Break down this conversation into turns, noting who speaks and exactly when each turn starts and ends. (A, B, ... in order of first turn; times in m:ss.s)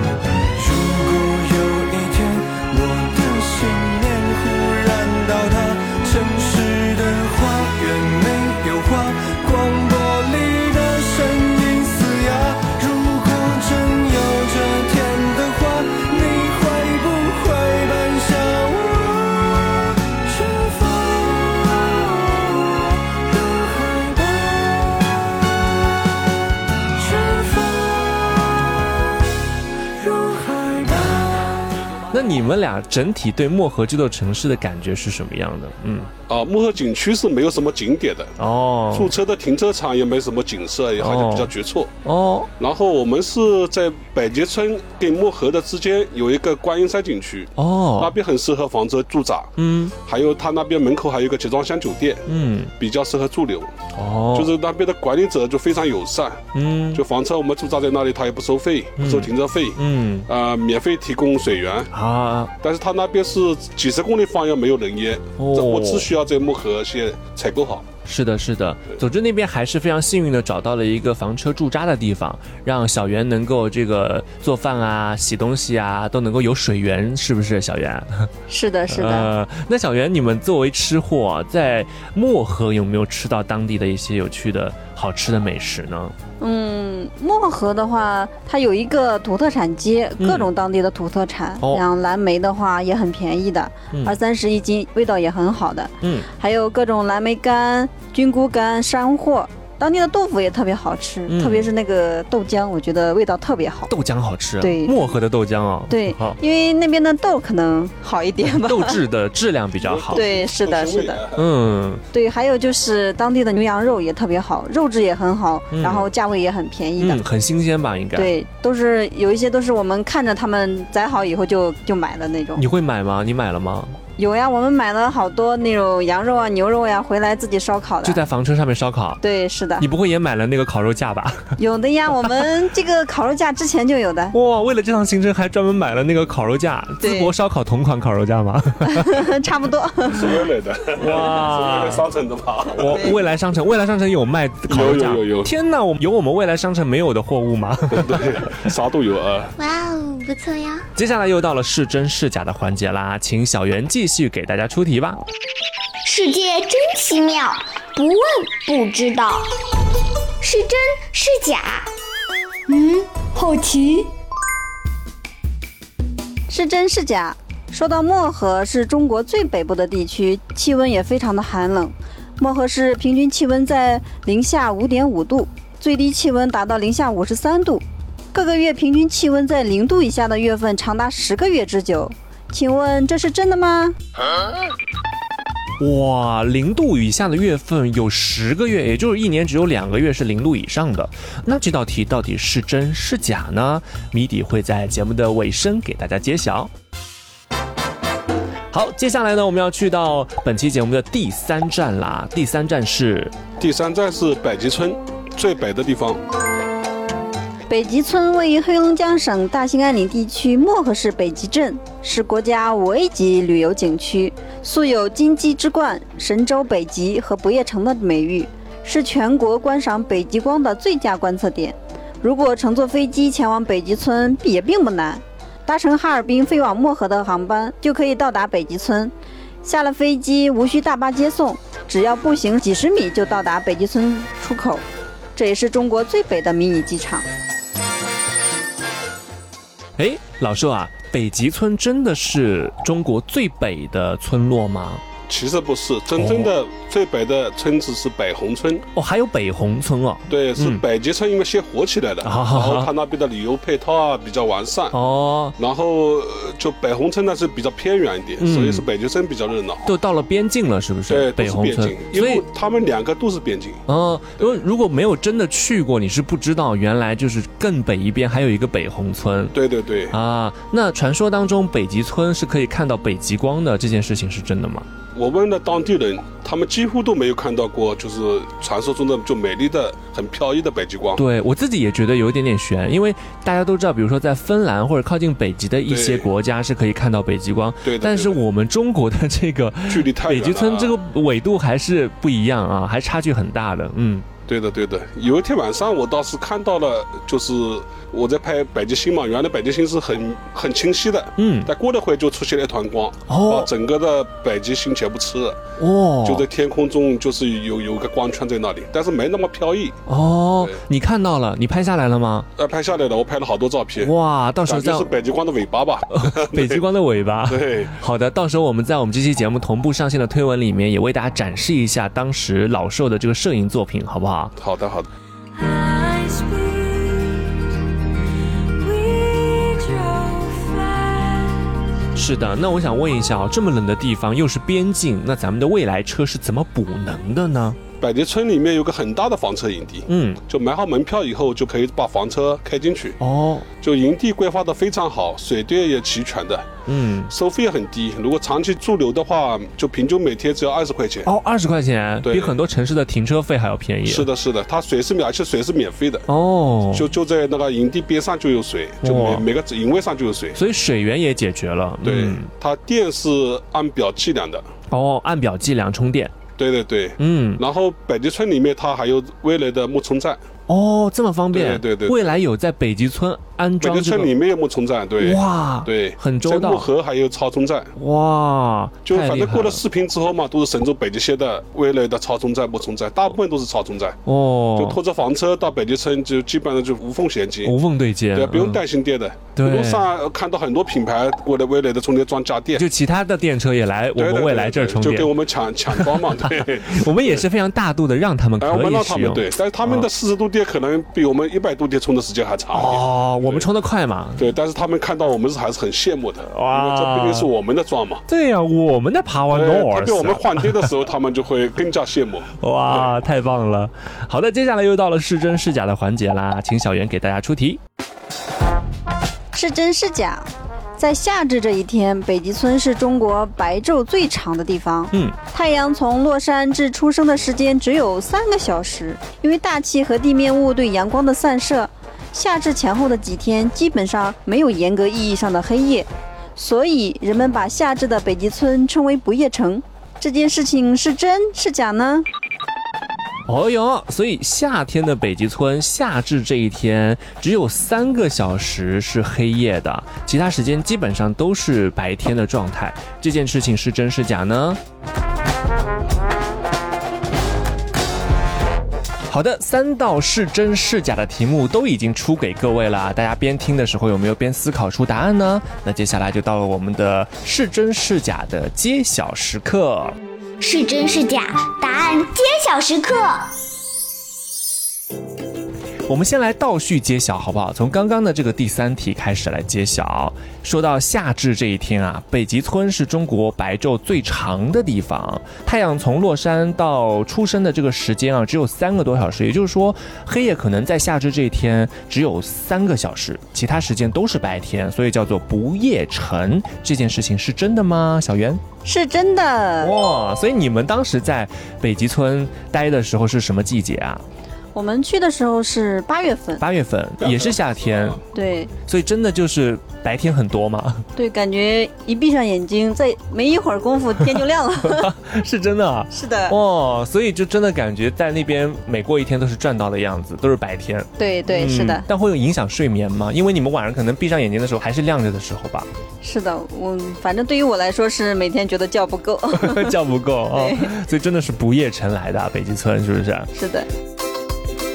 0:00.6-0:25.4 A
0:26.9-0:29.1 A
0:29.9-0:31.8 A
0:32.1-0:36.1 B
0:36.3-0:38.3 C
0:38.4-0:39.1 B
0:38.9-0:41.9 C
0:41.0-0:41.5 B
0:42.0-0:42.5 B
0:42.6-0:52.3 C
0:47.6-0:48.2 B
0:49.6-0:49.9 B
0:52.3-0:52.7 B
0:52.8-0:53.7 C
0:54.0-0:54.5 B
0:54.3-1:01.9 C
0:56.6-0:57.0 B
0:59.0-1:00.3 B
1:01.9-1:02.5 B
1:02.6-1:07.9 C
1:05.4-1:06.1 B
1:08.1-1:18.3 B
1:18.5-1:19.3 D
1:18.9-1:26.1 B
1:26.4-1:43.9 D
1:30.2-1:30.5 B
1:36.0-1:36.3 B
1:41.3-1:41.7 B
1:43.9-1:46.4 B
1:44.6-1:45.0 D
1:45.9-1:49.0 D
1:48.6-1:50.2 B
1:49.8-1:51.5 C
1:50.2-1:51.2 D
1:51.4-1:52.0 B
1:52.1-1:57.2 D
1:55.7-1:56.1 B
1:57.0-1:58.3 B
1:58.2-2:02.6 D
2:02.6-2:04.0 B
2:04.2-2:08.2 D
2:08.0-2:09.2 B
2:09.2-2:09.9 D
2:09.8-2:11.5 B
2:11.6-2:14.4 D
2:14.3-2:19.3 B
2:17.0-2:17.3 D
2:18.8-2:20.4 D
2:20.1-2:23.2 C
2:21.0-2:22.0 B
2:22.7-2:28.6 B
2:24.7-2:25.5 C
2:27.9-2:29.5 C
2:29.6-2:30.9 E
2:31.0-2:35.2 B
2:36.0-2:39.5 E
2:40.4-2:41.9 E
2:42.7-2:44.1 E
2:46.5-3:04.0 D
3:05.8-3:16.7 B
3:18.7-3:23.3 B
3:23.6-3:26.2 C
3:27.7-3:54.8 D
3:55.4-3:57.3 D
4:00.0-4:05.0 B
4:05.3-4:08.8 C
4:06.2-4:06.5 B
4:09.0-4:10.8 B
4:10.3-4:15.0 C
4:12.2-4:12.9 B
4:14.9-4:15.6 B
4:15.6-4:19.9 C
4:18.4-4:18.8 B
4:19.8-4:22.4 B
4:21.1-4:23.8 C
4:23.9-4:29.6 B
4:29.5-4:30.2 C
4:30.1-4:34.9 B
4:35.2-4:41.2 C
4:41.2-4:54.3 B
4:45.9-4:46.3 C
4:47.8-4:48.4 C
4:49.9-4:51.0 C
4:54.5-5:05.6 C
5:01.4-5:01.7 B
5:03.3-5:03.7 B
5:05.8-5:06.5 B
5:06.2-5:10.0 C
5:10.1-5:12.5 B
5:12.6-5:14.1 C
5:14.0-5:15.1 B
5:14.6-5:16.8 C
5:16.1-5:24.5 B
5:17.5-5:18.0 C
5:24.6-5:25.1 C
5:30.4-5:30.6 E
5:32.2-5:37.8 B
5:38.0-5:43.2 C
5:40.1-5:40.4 B
5:43.2-5:43.7 B
5:43.8-5:46.7 C
5:46.9-5:47.3 B
5:47.3-5:51.3 C
5:51.2-5:54.3 B
5:52.2-5:52.6 C
5:54.0-5:56.3 C
5:56.3-5:57.1 B
5:56.9-6:00.6 C
5:59.0-5:59.4 B
6:00.6-6:02.5 B
6:02.0-6:04.7 C
6:04.9-6:06.3 B
6:06.6-6:10.4 C
6:07.2-6:07.6 B
6:10.7-6:14.3 B
6:11.5-6:12.4 C
6:13.8-6:17.9 C
6:15.2-6:16.9 B
6:18.0-6:19.8 B
6:19.1-6:24.2 C
6:24.3-6:25.0 B
6:24.8-6:27.8 C
6:27.6-6:28.8 B
6:28.3-6:32.9 C
6:29.6-6:30.1 B
6:32.8-6:35.3 B
6:34.2-6:37.5 C
6:35.9-6:40.1 B
6:38.6-6:43.7 C
6:42.7-6:44.5 B
6:44.4-6:48.2 C
6:46.5-6:47.5 B
6:48.3-6:50.9 B
6:49.5-6:53.1 C
6:52.6-6:57.8 B
6:59.5-7:22.3 D
7:23.5-7:34.8 B
7:39.3-7:50.2 B
7:50.6-7:53.5 E
7:56.1-8:18.6 B
8:18.8-8:19.9 D
8:19.8-8:24.2 B
8:24.7-8:26.6 D
8:26.6-8:28.2 B
8:27.2-8:28.2 C
8:28.3-8:28.7 D
8:28.8-8:31.1 B
8:31.2-8:35.1 D
8:34.9-8:45.9 B
8:36.1-8:36.6 D
8:41.2-8:42.0 D
8:46.2-8:50.0 D
8:49.5-8:53.5 B
8:50.5-8:50.9 D
8:53.6-8:53.9 D